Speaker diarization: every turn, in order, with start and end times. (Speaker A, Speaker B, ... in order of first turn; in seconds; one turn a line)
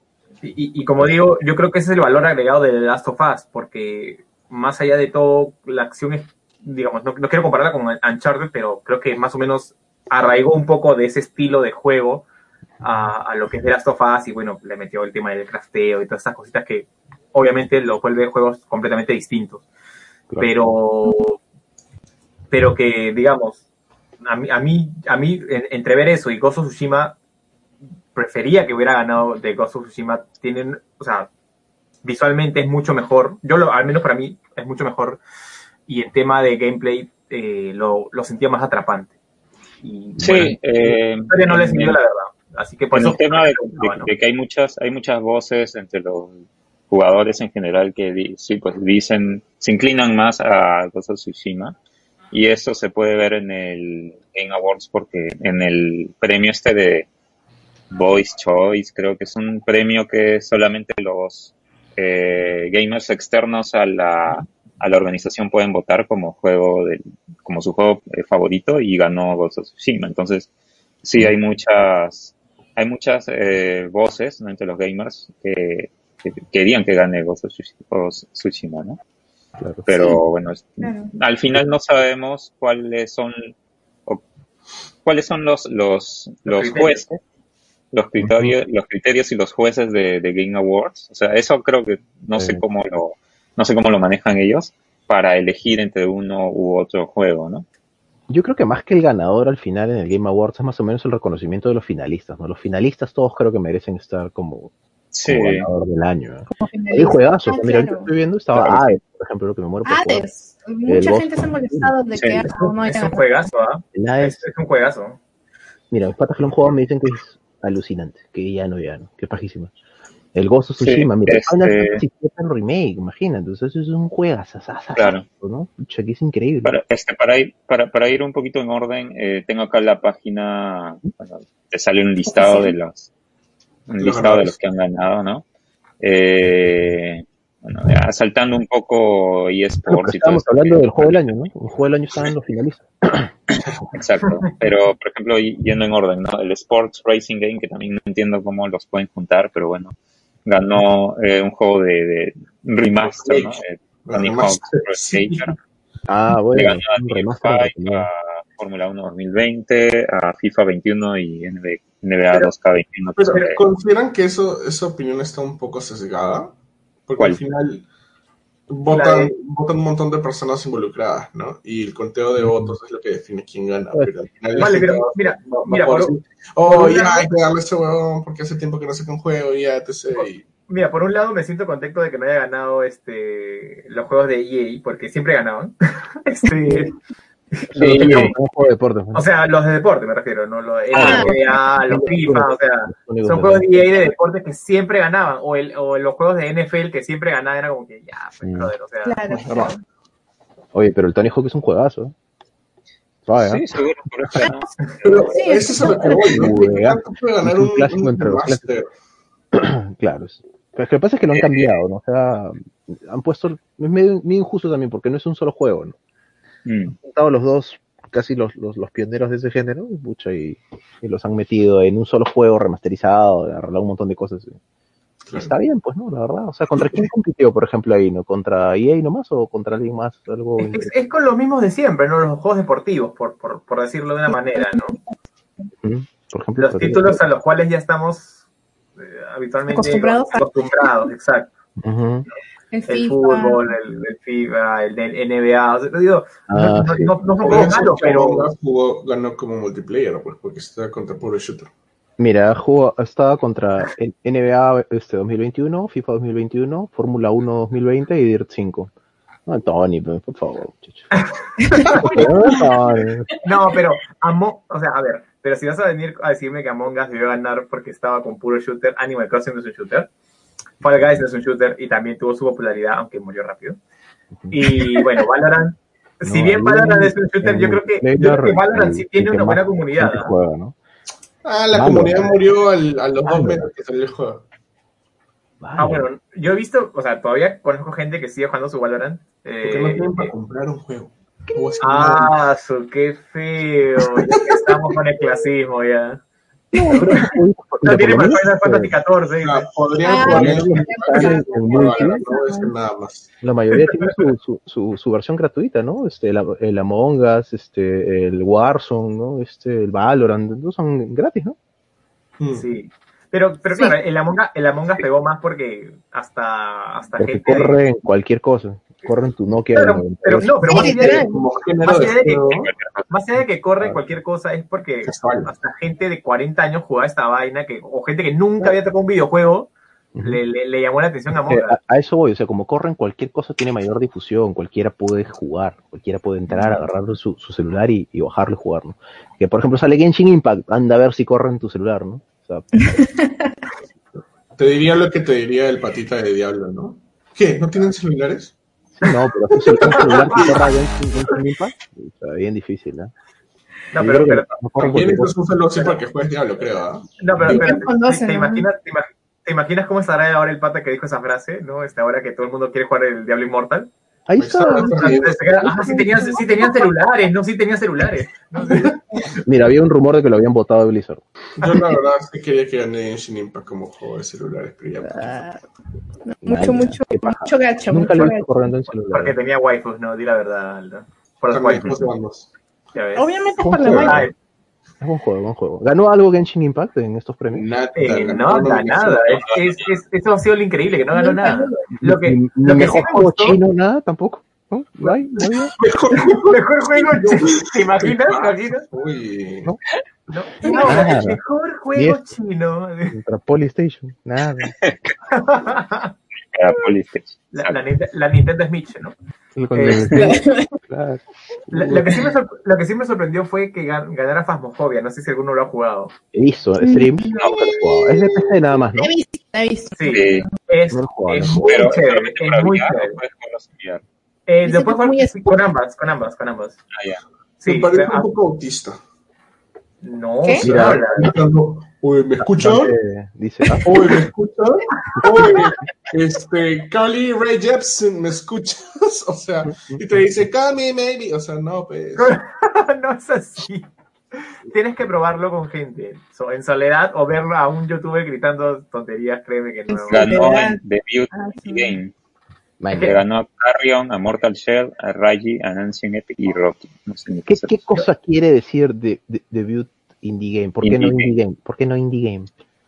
Speaker A: 0.4-12.2
Speaker A: 12.8-19.6
Speaker B: 20.3-20.7
Speaker A: 20.4-21.4
Speaker A: 22.5-23.6
Speaker A: 24.2-27.2
Speaker A: 28.1-31.3
Speaker A: 32.0-35.2
Speaker A: 35.9-39.1
Speaker A: 39.8-44.1
Speaker B: 40.2-40.5
Speaker C: 40.2-42.0
Speaker C: 42.9-46.4
Speaker C: 46.9-51.8
Speaker C: 52.3-57.1
Speaker C: 57.9-70.5
Speaker C: 71.0-79.0
Speaker B: 79.6-79.9
Speaker C: 79.9-83.5
Speaker D: 80.8-81.1
Speaker C: 85.0-87.1
Speaker A: 86.5-87.2
Speaker C: 87.9-97.7
Speaker B: 88.2-88.5
Speaker B: 92.3-92.6
Speaker B: 98.3-104.7
Speaker C: 105.1-105.7
Speaker B: 105.3-110.3
Speaker D: 106.5-108.1
Speaker C: 108.5-109.0
Speaker D: 109.8-113.3
Speaker B: 110.9-111.9
Speaker C: 112.2-112.5
Speaker A: 112.6-115.2
Speaker B: 114.0-114.4
Speaker B: 115.9-119.7
Speaker B: 120.3-126.8
Speaker C: 120.8-122.0
Speaker C: 125.0-125.2
Speaker C: 126.6-133.1
Speaker D: 132.4-132.7
Speaker C: 133.9-135.4
Speaker E: 134.0-134.5
Speaker C: 136.0-141.2
Speaker B: 139.9-143.3
Speaker C: 143.9-149.9
Speaker C: 150.4-155.5
Speaker E: 153.0-155.6
Speaker B: 156.1-158.1
Speaker C: 156.5-163.6
Speaker E: 163.2-166.5
Speaker E: 167.1-167.8
Speaker E: 168.7-180.4
Speaker A: 168.9-169.3
Speaker B: 172.4-172.8
Speaker A: 174.5-177.3
Speaker A: 180.2-186.9
Speaker A: 187.6-188.3
Speaker B: 187.7-189.2
Speaker C: 187.8-188.3
Speaker A: 189.1-199.2
Speaker C: 190.9-191.3
Speaker D: 191.0-191.6
Speaker B: 191.0-194.1
Speaker B: 198.4-198.7
Speaker D: 199.0-199.8
Speaker B: 199.5-199.7
Speaker B: 200.7-202.1
Speaker B: 203.3-203.6
Speaker C: 203.4-205.3
Speaker E: 205.0-208.9
Speaker D: 205.2-206.6
Speaker B: 205.8-208.6
Speaker B: 209.5-215.9
Speaker C: 211.3-211.8
Speaker C: 216.7-216.9
Speaker B: 216.9-224.6
Speaker E: 225.3-225.5
Speaker B: 225.3-230.9
Speaker A: 230.6-235.0
Speaker B: 235.8-237.2
Speaker A: 236.6-238.4
Speaker A: 239.0-241.5
Speaker D: 239.7-241.1
Speaker B: 241.8-242.3
Speaker D: 242.7-243.7
Speaker A: 242.9-248.5
Speaker B: 246.5-247.7
Speaker E: 247.4-251.7
Speaker B: 252.2-258.9
Speaker B: 259.5-261.1
Speaker A: 261.1-262.3
Speaker D: 261.6-262.8
Speaker B: 261.9-263.3
Speaker A: 263.4-270.1
Speaker A: 270.8-273.8
Speaker A: 274.5-280.3
Speaker B: 276.2-280.8
Speaker E: 281.4-284.4
Speaker B: 281.7-282.4
Speaker B: 283.3-283.7
Speaker B: 285.6-286.1
Speaker A: 285.8-290.3
Speaker E: 289.6-292.4
Speaker A: 291.8-296.2
Speaker E: 294.0-294.8
Speaker D: 296.7-297.3
Speaker B: 296.7-298.9
Speaker A: 296.9-299.7
Speaker E: 299.4-303.3
Speaker D: 300.0-302.7
Speaker B: 300.3-302.2
Speaker B: 303.4-311.6
Speaker E: 312.4-312.7
Speaker A: 312.5-317.8
Speaker D: 313.7-314.0
Speaker B: 317.2-320.6
Speaker A: 319.7-321.2
Speaker D: 320.4-321.4
Speaker E: 320.7-322.7
Speaker A: 321.8-331.8
Speaker C: 322.6-323.1
Speaker E: 325.1-325.5
Speaker B: 330.1-330.4
Speaker B: 331.4-343.0
Speaker D: 342.8-343.6
Speaker E: 344.1-348.6
Speaker B: 349.0-353.1
Speaker E: 349.5-350.5
Speaker A: 349.9-350.5
Speaker A: 353.9-354.6
Speaker B: 353.9-355.3
Speaker E: 354.8-357.8
Speaker A: 357.2-363.9
Speaker D: 357.5-358.7
Speaker B: 364.3-366.4
Speaker E: 364.4-365.7
Speaker A: 364.7-369.0
Speaker B: 369.4-371.2
Speaker E: 371.6-375.5
Speaker D: 375.1-375.6
Speaker D: 376.2-378.5
Speaker B: 376.4-379.4
Speaker A: 379.1-382.1
Speaker E: 381.5-382.5
Speaker A: 382.9-383.3
Speaker D: 383.1-384.3
Speaker B: 383.6-384.3
Speaker A: 383.9-384.3
Speaker B: 385.0-387.7
Speaker E: 387.5-389.9
Speaker A: 388.0-393.6
Speaker D: 391.1-391.9
Speaker B: 391.9-395.7
Speaker E: 395.6-399.7
Speaker A: 396.2-398.9
Speaker A: 400.3-403.1
Speaker D: 400.6-401.1
Speaker B: 400.8-401.4
Speaker B: 403.1-404.8
Speaker C: 404.8-405.1
Speaker A: 405.3-406.1
Speaker C: 406.5-407.8
Speaker A: 407.5-409.1
Speaker B: 409.6-412.0
Speaker A: 409.7-410.1
Speaker D: 410.0-410.8
Speaker A: 411.7-416.1
Speaker E: 411.8-412.1
Speaker B: 416.3-419.1
Speaker D: 416.8-420.5
Speaker C: 417.4-417.7
Speaker A: 420.0-423.2
Speaker C: 420.1-420.5
Speaker B: 420.9-421.7
Speaker C: 421.7-424.0
Speaker A: 424.5-426.8
Speaker D: 424.6-425.6
Speaker C: 426.9-427.2
Speaker A: 427.6-428.3
Speaker E: 427.6-429.0
Speaker A: 430.0-431.3
Speaker B: 430.6-431.0
Speaker E: 430.6-432.9
Speaker B: 432.4-433.9
Speaker E: 433.8-442.4
Speaker A: 435.2-435.7
Speaker B: 439.7-440.0
Speaker A: 442.2-450.4
Speaker D: 449.9-450.8
Speaker C: 450.1-452.1
Speaker D: 451.3-452.0
Speaker B: 452.8-453.2
Speaker A: 452.9-453.2
Speaker C: 452.9-457.8
Speaker B: 457.5-462.5
Speaker C: 460.8-461.3